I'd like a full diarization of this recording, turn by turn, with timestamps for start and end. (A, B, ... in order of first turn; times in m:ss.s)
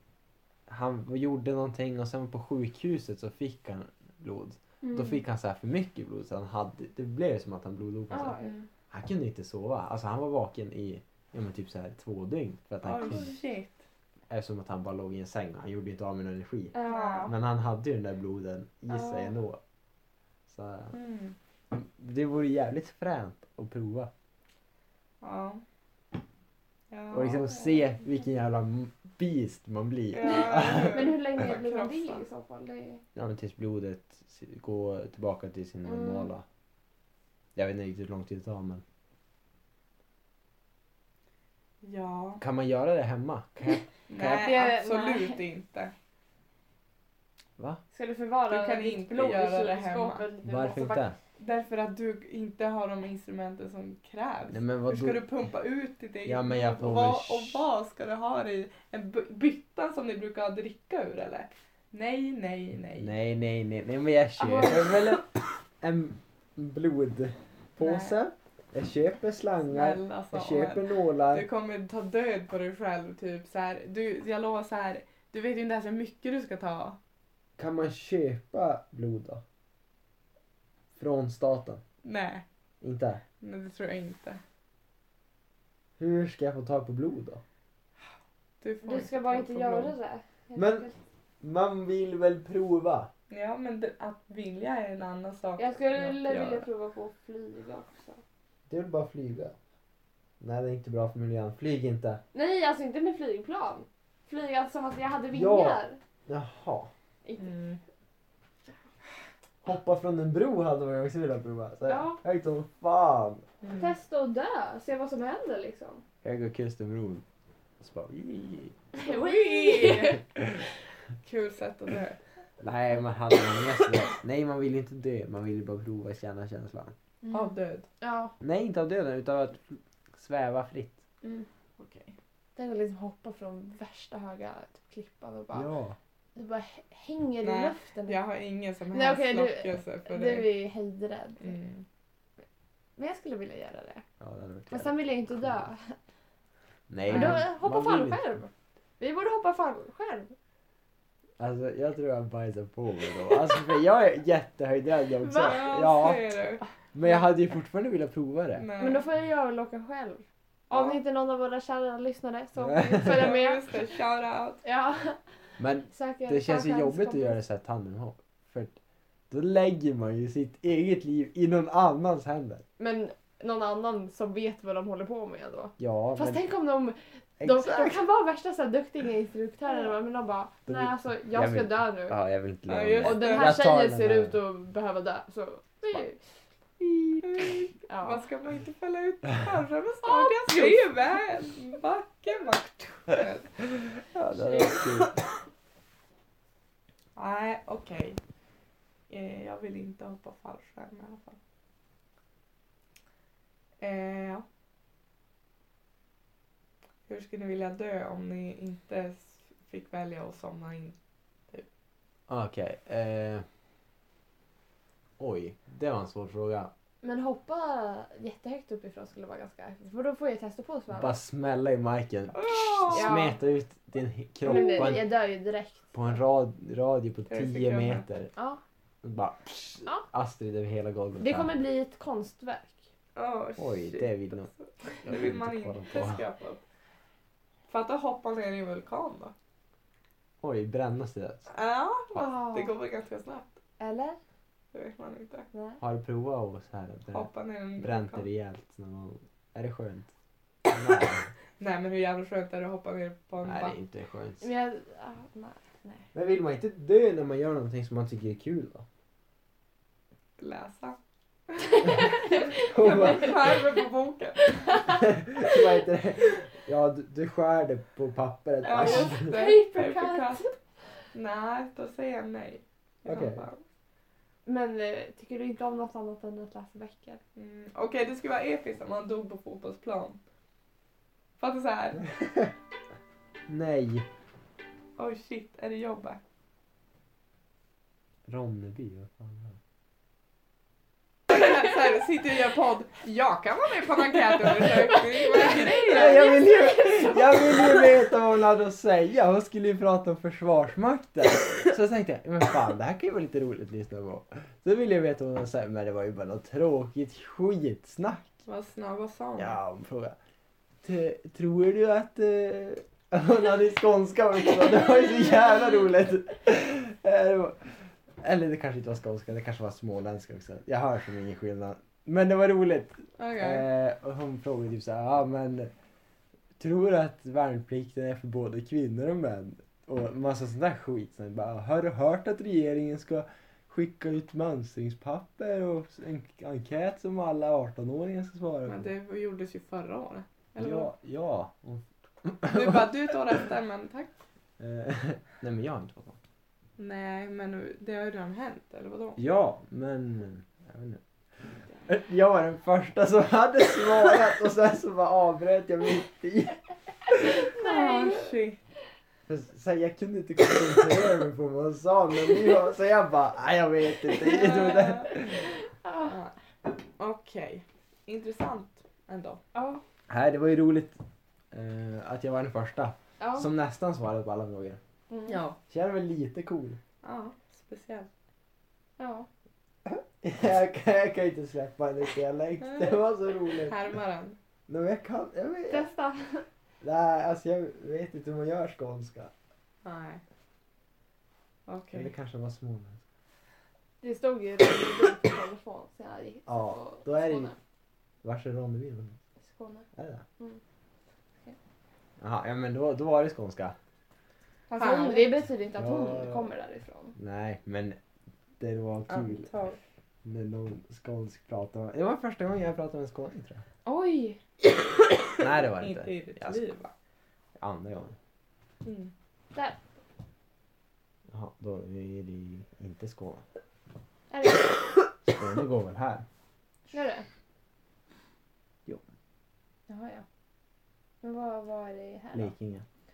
0:00.7-0:08.4 A
0:04.8-0:05.2 B
0:08.1-0:08.5 B
0:08.4-0:08.7 C
0:08.9-0:13.4 A
0:12.8-0:13.8 C
0:14.3-0:19.6 A
0:16.7-0:17.3 B
0:16.8-0:17.3 C
0:18.9-0:19.3 B
0:20.5-0:20.9 A
0:20.9-0:21.4 C
0:21.7-0:24.1 A
0:25.2-0:25.6 C
0:26.9-0:27.5 C
0:27.1-0:31.1 A
0:30.1-0:32.2 C
0:30.2-0:33.0 B
0:33.1-0:36.4 A
0:35.8-0:36.3 B
0:37.5-0:38.8 A
0:41.8-0:42.4 C
0:42.4-0:44.5 A
0:44.1-0:45.9 C
0:44.3-0:45.4 B
0:47.9-0:51.0 B
0:48.5-0:50.2 C
0:50.4-0:51.2 A
0:51.4-1:03.1 C
0:54.5-0:55.2 A
0:56.2-0:57.6 A
1:03.0-1:11.4 A
1:04.4-1:05.2 B
1:07.8-1:08.2 C
1:09.7-1:17.0 C
1:17.6-1:19.4 A
1:21.0-1:21.8 A
1:22.0-1:22.4 C
1:22.8-1:23.2 A
1:23.4-1:24.4 C
1:26.0-1:27.4 A
1:28.6-1:29.9 C
1:28.8-1:30.9 B
1:30.6-1:30.9 A
1:31.4-1:33.1 A
1:33.3-1:36.7 C
1:35.6-1:38.2 B
1:38.7-1:39.5 A
1:40.4-1:42.2 A
1:42.3-1:46.0 B
1:45.3-1:46.9 A
1:47.4-1:47.8 C
1:49.6-1:53.4 A
1:51.9-1:52.2 B
1:53.6-1:53.9 C
1:53.7-1:56.0 B
1:56.2-1:57.2 A
1:57.8-1:58.8 A
1:59.0-2:00.2 B
1:59.0-2:00.2 C
2:01.2-2:02.2 C
2:02.6-2:06.9 A
2:07.2-2:08.3 B
2:07.3-2:07.9 C
2:08.4-2:11.0 A
2:11.2-2:11.5 B
2:11.8-2:12.2 C
2:12.6-2:15.7 B
2:15.5-2:16.0 A
2:16.4-2:18.2 B
2:17.4-2:20.5 C
2:18.9-2:21.5 B
2:21.4-2:21.8 C
2:23.0-2:24.0 B
2:24.2-2:25.5 A
2:24.7-2:26.0 B
2:26.9-2:28.2 A
2:27.1-2:30.3 B
2:27.1-2:27.4 C
2:31.4-2:36.2 A
2:35.2-2:35.7 B
2:35.4-2:36.6 C
2:36.9-2:38.6 A
2:38.6-2:39.0 C
2:38.8-2:43.8 B
2:40.7-2:41.0 C
2:42.7-2:43.1 A
2:42.9-2:44.6 C
2:44.6-2:45.2 B
2:45.6-2:48.8 A
2:45.9-2:47.4 B
2:49.3-2:52.6 A
2:52.8-3:02.2 B
2:55.8-2:56.4 A
2:57.4-2:58.0 A
3:00.7-3:04.4 A
3:02.7-3:03.6 C
3:03.0-3:06.2 B
3:06.8-3:07.4 A
3:07.2-3:13.7 C
3:07.9-3:08.2 B
3:10.0-3:11.0 B
3:14.1-3:15.1 A
3:14.4-3:14.8 B
3:17.2-3:18.2 C
3:19.1-3:21.4 C
3:23.8-3:24.4 C
3:27.1-3:31.0 C
3:32.3-3:33.4 A
3:35.2-3:36.7 A
3:37.0-3:41.2 B
3:40.9-3:45.1 A
3:42.3-3:43.1 C
3:42.9-3:43.4 B
3:44.4-3:45.9 B
3:45.9-3:48.3 A
3:47.3-3:48.0 C
3:48.4-3:48.6 B
3:49.0-3:51.5 A
3:51.2-3:52.8 B
3:53.2-3:56.6 C
3:53.6-3:54.5 A
3:55.0-3:56.2 A
3:57.7-3:59.3 C
4:00.4-4:01.4 A
4:01.5-4:03.6 C
4:02.1-4:02.7 B
4:03.8-4:04.2 B
4:04.7-4:05.5 C
4:05.5-4:05.8 B
4:05.8-4:10.1 A
4:07.1-4:08.2 C
4:10.7-4:11.3 A
4:11.6-4:13.7 C
4:13.4-4:14.5 A
4:14.4-4:16.1 B
4:16.1-4:18.8 A
4:20.4-4:21.0 C
4:21.5-4:24.6 C
4:21.8-4:23.6 B
4:22.5-4:23.5 A
4:24.5-4:25.0 B
4:24.9-4:29.3 A
4:28.6-4:30.5 C
4:28.7-4:30.5 B
4:31.1-4:33.6 C
4:33.0-4:33.5 A
4:34.4-4:37.2 B
4:37.4-4:40.2 C
4:41.4-4:42.0 C
4:43.5-4:44.1 A
4:45.0-4:46.2 C
4:48.3-4:49.6 A
4:51.3-4:56.2 C
4:55.1-4:57.9 B
4:55.7-5:08.4 A
5:08.4-5:09.6 C
5:09.4-5:10.2 A
5:10.8-5:25.7 A
5:23.2-5:23.6 C
5:26.6-5:38.9 A
5:38.6-5:40.9 C
5:40.6-5:43.1 A
5:42.5-5:44.1 C
5:44.6-5:46.2 A
5:46.8-5:49.2 C
5:49.2-5:57.3 A
5:57.4-5:58.6 C
5:57.4-5:58.4 B
5:59.3-6:05.4 A
6:04.2-6:05.2 C
6:05.8-6:06.1 B
6:06.0-6:06.3 C
6:07.0-6:09.4 C
6:09.5-6:09.8 B
6:10.1-6:11.0 A
6:11.5-6:14.8 A
6:13.2-6:13.5 B
6:15.1-6:15.4 B
6:15.2-6:15.6 C
6:15.7-6:16.8 A
6:17.0-6:18.1 C
6:19.0-6:19.3 B
6:19.8-6:23.8 A
6:22.6-6:23.0 C
6:23.5-6:24.4 C
6:24.7-6:25.9 A
6:25.7-6:26.4 B
6:26.8-6:29.3 A
6:29.8-6:30.2 C
6:31.7-6:32.1 C
6:31.9-6:33.0 A
6:34.0-6:37.6 B
6:36.5-6:37.5 A
6:38.2-6:39.2 A
6:39.4-6:39.8 B
6:40.0-6:40.2 A
6:42.2-6:43.8 A
6:44.7-6:45.4 C
6:44.8-6:47.1 B
6:45.8-6:46.5 A
6:47.2-6:48.0 A
6:48.6-6:49.5 A
6:49.1-6:49.8 C
6:50.2-6:53.6 A
6:53.8-6:54.4 B
6:55.4-6:56.6 A
6:55.7-6:56.9 C
6:57.6-6:58.2 A
6:58.8-6:59.1 C
6:59.5-6:59.8 B
7:01.3-7:03.4 A
7:04.3-7:04.8 B
7:05.3-7:06.2 A
7:06.9-7:07.2 B
7:09.9-7:10.2 B
7:11.2-7:12.5 B
7:12.3-7:12.8 A